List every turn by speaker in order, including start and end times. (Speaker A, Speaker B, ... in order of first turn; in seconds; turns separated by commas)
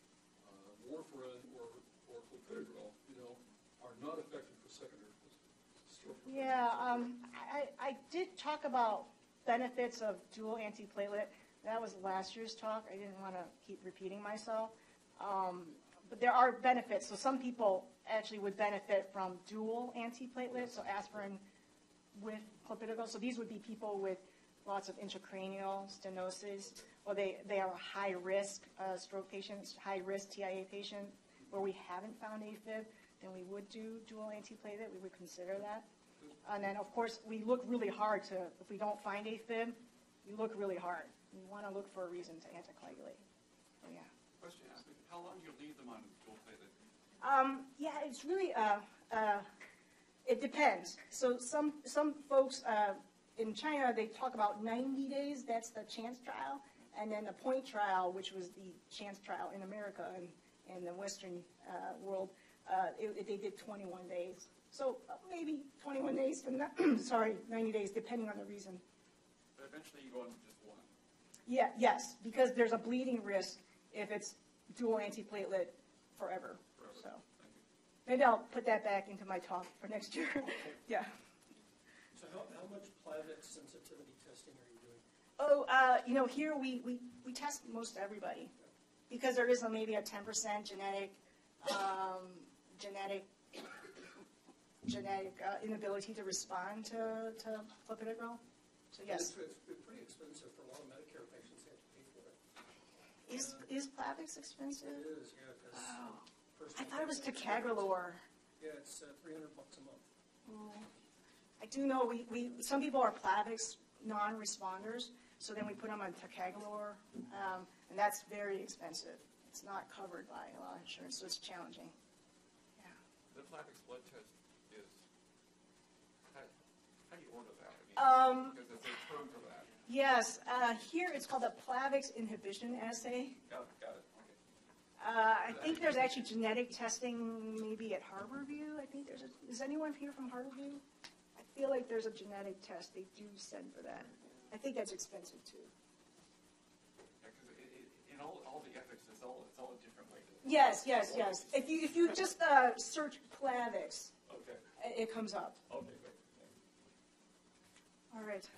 Speaker A: 0.4-6.9, Speaker B: 6.2-21.4, Speaker B: 22.1-35.9, Speaker B: 36.4-43.2, Speaker B: 43.8-44.1, Speaker C: 44.4-46.7, Speaker B: 47.2-49.5, Speaker B: 50.2-68.8, Speaker C: 69.5-70.9, Speaker B: 71.5-77.2, Speaker C: 76.8-77.6, Speaker B: 78.0-81.1, Speaker D: 82.1-85.0, Speaker B: 85.4-88.5, Speaker B: 89.1-93.7, Speaker B: 94.8-99.3, Speaker D: 99.0-102.4, Speaker B: 103.3-105.0, Speaker D: 103.3-103.6, Speaker D: 104.8-107.9, Speaker B: 105.7-106.2, Speaker B: 106.8-108.2, Speaker D: 108.6-110.1, Speaker B: 110.5-110.9, Speaker B: 111.6-121.9, Speaker C: 123.3-125.0, Speaker C: 127.1-129.8, Speaker B: 128.0-128.6, Speaker B: 129.8-133.4, Speaker C: 133.4-134.4, Speaker B: 135.0-140.8, Speaker B: 141.3-145.7, Speaker C: 147.2-151.5, Speaker B: 150.4-154.1, Speaker C: 154.2-154.6, Speaker B: 154.8-155.6, Speaker C: 155.7-156.5, Speaker B: 158.1-158.5